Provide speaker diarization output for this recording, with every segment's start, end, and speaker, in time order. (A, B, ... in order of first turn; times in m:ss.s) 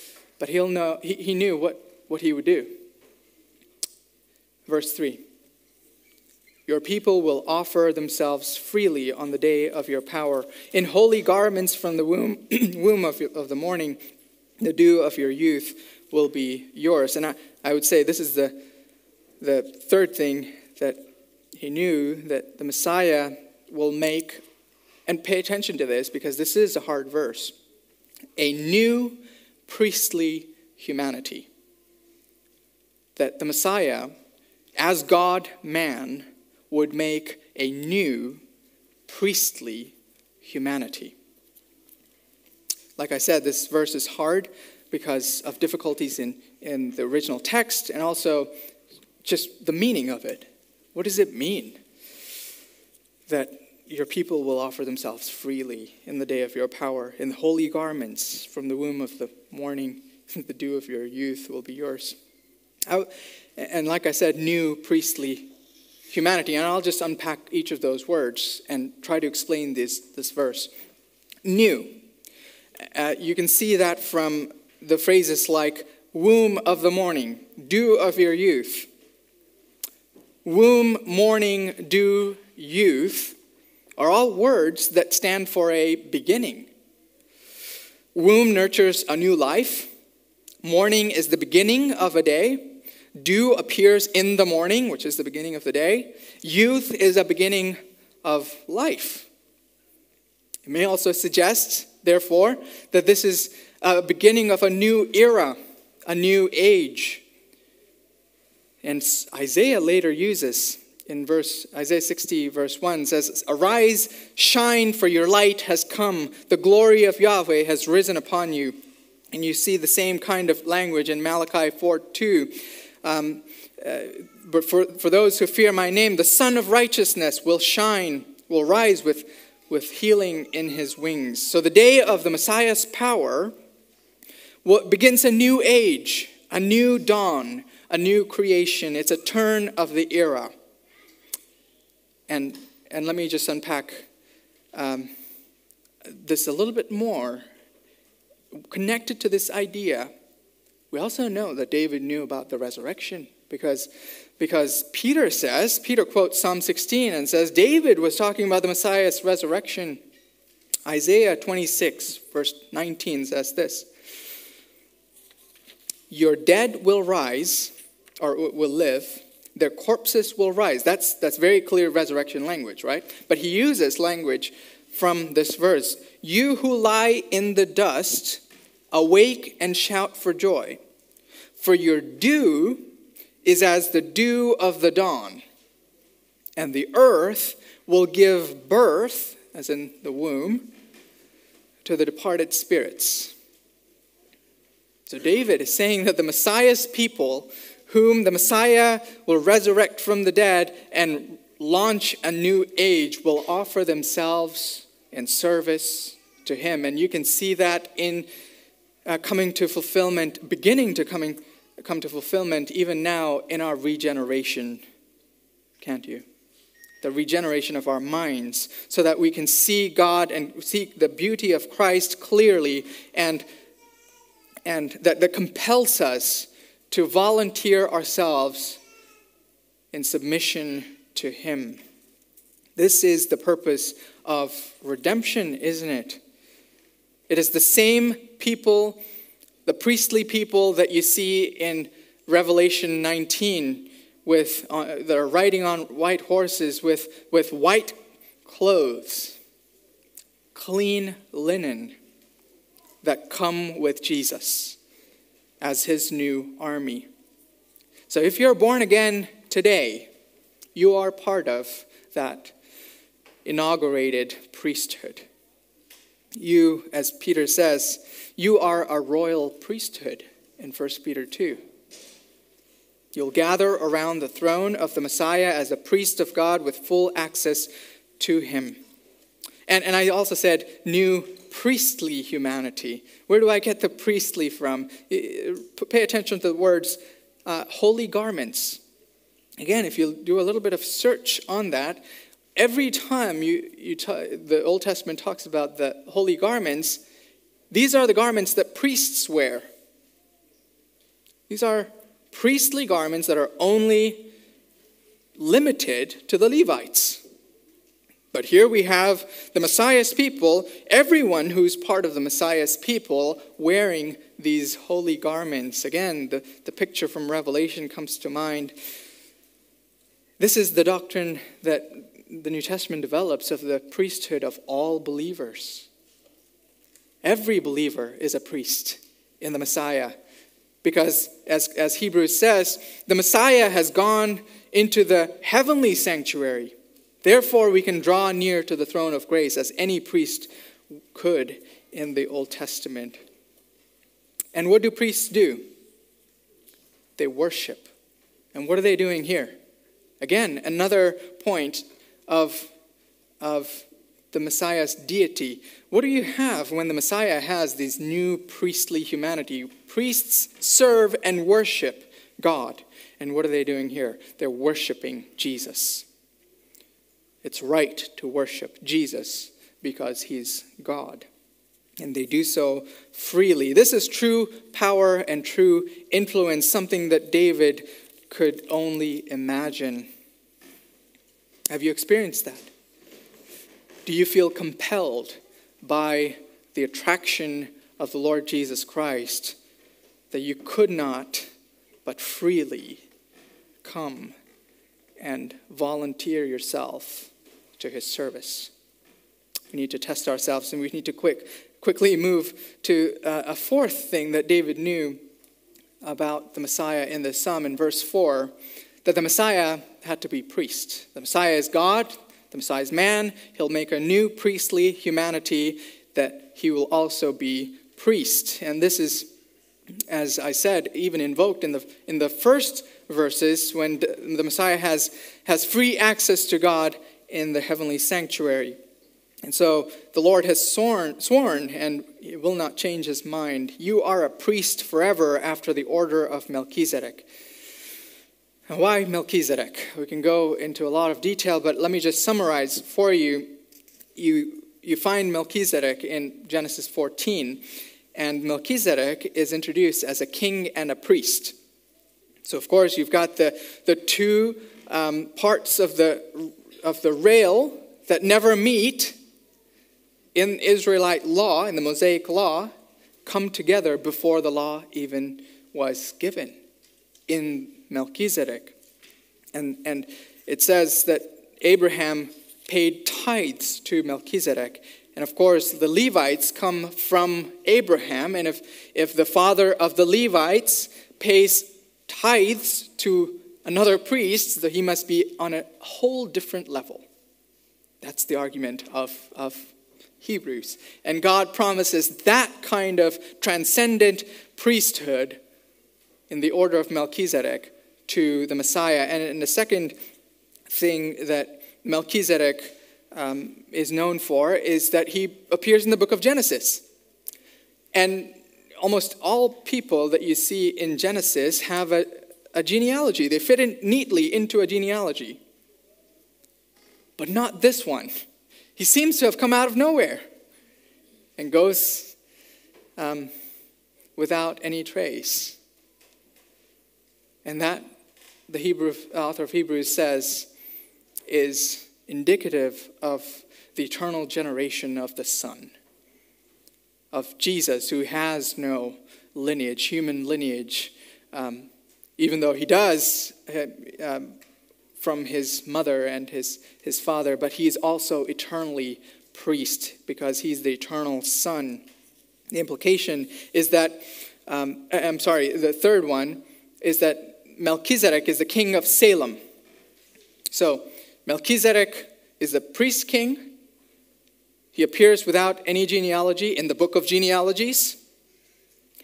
0:00.4-0:02.8 A
0:04.6-0:05.2 A
0:06.7-0:14.0 A
0:14.6-0:18.6 A
0:19.4-0:21.0 A
0:21.5-0:24.4 A
0:25.0-0:27.5 A
0:28.4-0:31.5 A
0:33.2-0:34.1 A
0:34.8-0:38.4 A
0:39.1-0:41.1 A
0:43.0-0:48.5 A
0:49.2-0:51.8 A
0:53.3-1:02.2 A
1:02.9-1:05.5 A
1:06.1-1:10.7 A
1:11.4-1:12.0 A
1:12.9-1:18.9 A
1:20.4-1:23.4 A
1:24.0-1:26.7 A
1:28.1-1:29.9 A
1:30.6-1:39.3 A
1:40.6-1:45.6 A
1:46.1-1:47.2 A
1:48.8-1:58.8 A
1:59.3-2:13.5 A
2:14.6-2:20.5 A
2:22.3-2:24.1 A
2:24.7-2:25.1 A
2:26.1-2:27.4 A
2:28.7-2:30.1 A
2:30.9-2:40.0 A
2:40.8-2:43.9 A
2:46.1-2:58.4 A
2:58.9-3:00.8 A
3:01.6-3:02.9 A
3:03.4-3:05.4 A
3:06.6-3:10.7 A
3:11.8-3:13.3 A
3:15.1-3:28.3 A
3:29.0-3:34.8 A
3:35.8-3:36.2 A
3:37.0-3:43.4 A
3:44.6-3:48.8 A
3:49.9-3:51.8 A
3:52.8-3:56.2 A
3:57.3-3:59.0 A
3:59.6-4:09.4 A
4:10.5-4:12.0 A
4:13.0-4:14.8 A
4:15.6-4:17.1 A
4:18.1-4:20.1 A
4:20.7-4:22.5 A
4:23.4-4:25.2 A
4:26.4-4:31.6 A
4:33.1-4:38.8 A
4:39.7-4:48.8 A
4:49.6-4:52.0 A
4:52.6-4:57.0 A
4:57.7-4:59.6 A
5:01.5-5:04.3 A
5:05.4-5:07.2 A
5:08.3-5:18.7 A
5:20.4-5:25.9 A
5:27.2-5:30.2 A
5:30.8-5:40.5 A
5:41.1-5:43.2 A
5:44.5-5:45.6 A
5:47.2-5:47.9 A
5:48.5-5:49.5 A
5:50.2-5:52.7 A
5:53.4-6:06.0 A
6:07.4-6:11.3 A
6:12.0-6:20.1 A
6:21.7-6:22.7 A
6:24.0-6:29.6 A
6:30.3-6:31.5 A
6:32.0-6:33.0 A
6:33.8-6:34.3 A
6:35.2-6:38.7 A
6:39.7-6:45.2 A
6:46.0-6:48.5 A
6:49.0-6:59.3 A
7:00.1-7:08.8 A
7:09.4-7:17.3 A
7:18.7-7:23.5 A
7:24.2-7:27.6 A
7:28.1-7:31.6 A
7:32.4-7:39.2 A
7:40.3-7:42.7 A
7:43.2-7:46.6 A
7:47.3-7:48.7 A
7:49.5-8:07.0 A
8:08.0-8:15.4 A
8:16.3-8:19.9 A
8:20.7-8:26.8 A
8:27.9-8:35.4 A
8:37.2-8:38.2 A
8:38.8-8:40.2 A
8:41.4-8:42.2 A
8:43.0-8:43.3 A
8:44.2-8:45.6 A
8:47.4-8:47.8 A
8:48.5-8:50.5 A
8:51.3-8:55.7 A
8:57.1-9:04.3 A
9:05.0-9:11.8 A
9:12.5-9:19.4 A
9:20.5-9:23.5 A
9:24.7-9:28.0 A